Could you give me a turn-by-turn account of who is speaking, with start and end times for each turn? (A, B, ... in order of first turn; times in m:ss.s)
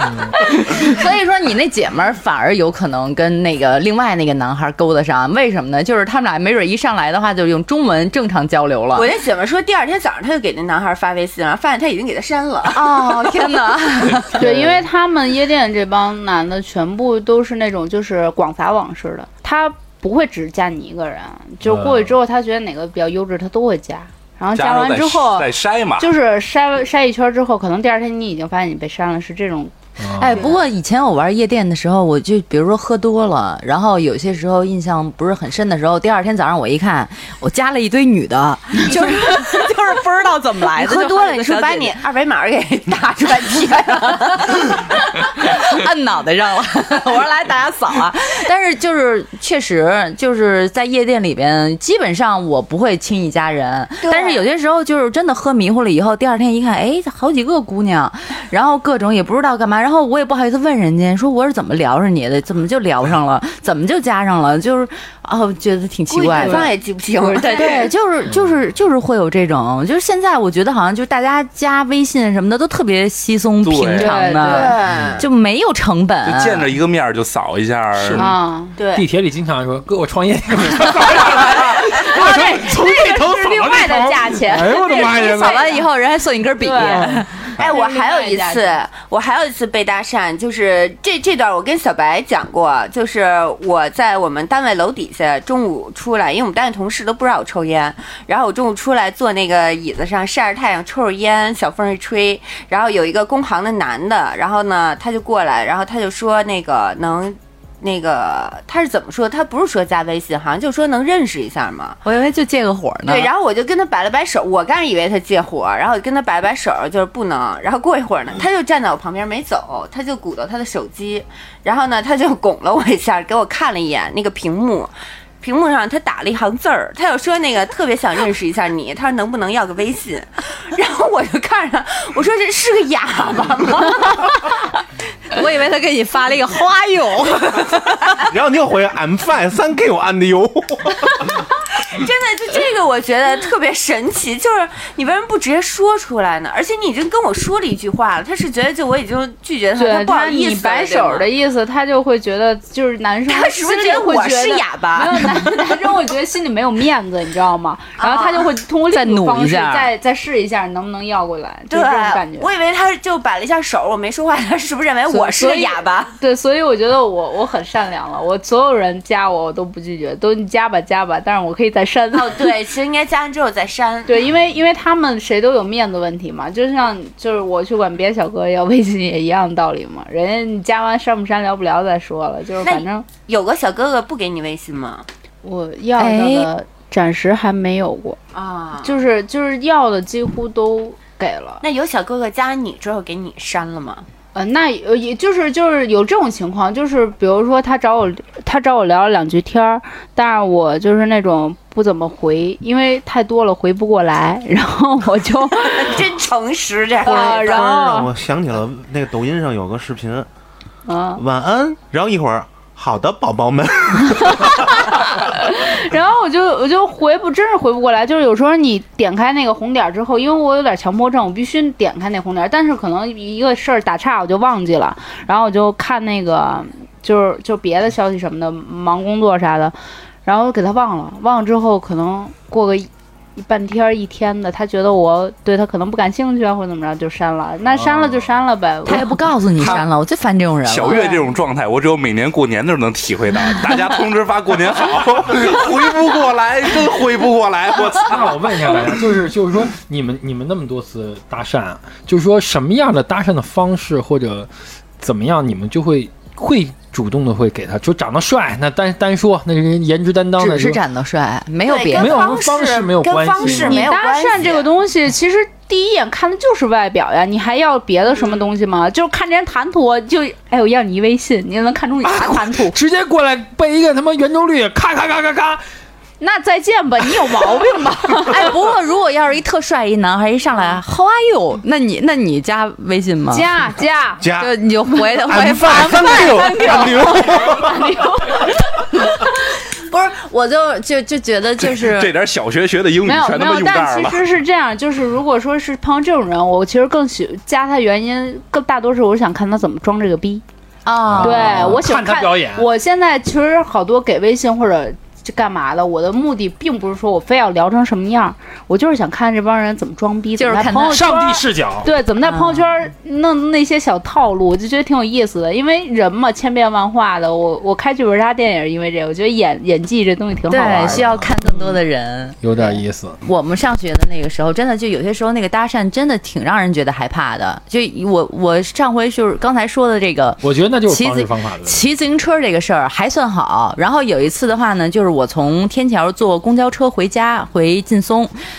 0:00.4-0:09.1 A
0:00.6-0:01.0 B
0:08.9-0:14.2 B
0:12.7-0:14.4 A
0:14.4-0:29.7 C
0:14.4-0:14.8 D
0:21.6-0:22.1 D
0:24.6-0:26.1 E
0:30.0-0:30.5 D
0:30.2-0:42.0 A
0:38.8-0:39.7 B
0:40.8-0:44.9 B
0:44.1-1:06.7 A
0:54.0-0:54.4 B
1:06.1-1:07.9 B
1:06.4-1:06.7 C
1:07.2-1:07.8 C
1:07.3-1:16.7 A
1:13.6-1:14.1 E
1:14.0-1:14.8 C
1:14.4-1:15.3 B
1:16.2-1:18.3 E
1:18.0-1:18.4 D
1:18.2-1:18.8 C
1:18.8-1:19.1 B
1:18.9-1:25.7 D
1:21.2-1:25.9 C
1:25.1-1:27.5 A
1:26.6-1:28.8 C
1:26.8-1:27.2 D
1:27.6-1:52.0 B
1:52.0-1:53.3 A
1:53.1-2:14.5 B
2:15.3-2:18.2 A
2:18.2-2:21.2 F
2:21.8-2:31.3 B
2:29.8-2:42.5 C
2:33.3-2:35.7 B
2:38.0-2:38.5 B
2:38.9-2:39.9 A
2:41.7-2:46.1 B
2:45.1-2:52.5 C
2:52.1-2:54.3 B
2:54.1-3:03.1 C
3:02.6-3:05.1 B
3:05.4-3:08.2 C
3:06.0-3:06.5 A
3:08.3-3:09.0 B
3:08.8-3:11.6 C
3:11.6-3:14.1 B
3:14.4-3:26.0 C
3:25.6-3:27.8 B
3:27.0-3:28.1 C
3:27.1-3:30.3 F
3:30.9-3:31.2 C
3:31.2-3:35.0 F
3:34.2-3:59.1 C
3:57.7-3:58.3 D
3:58.9-4:01.1 A
4:00.6-4:08.9 E
4:00.9-4:01.2 C
4:07.8-4:20.8 D
4:20.4-4:22.4 A
4:21.7-4:24.7 B
4:21.9-4:23.9 D
4:23.4-4:32.8 C
4:32.0-4:35.6 D
4:36.2-4:38.5 C
4:38.2-4:43.5 A
4:43.3-4:44.2 C
4:44.2-4:44.5 F
4:44.4-4:47.0 A
4:45.1-4:47.8 F
4:45.6-4:49.1 C
4:49.8-4:52.1 A
4:51.6-4:54.2 E
4:53.0-5:00.4 C
5:00.9-5:01.8 A
5:01.1-5:02.7 D
5:01.2-5:21.1 C
5:10.4-5:11.0 A
5:10.9-5:11.9 D
5:12.2-5:12.7 A
5:20.5-5:22.4 A
5:20.6-5:21.3 D
5:22.4-5:23.2 D
5:23.2-5:38.3 A
5:30.4-5:31.8 D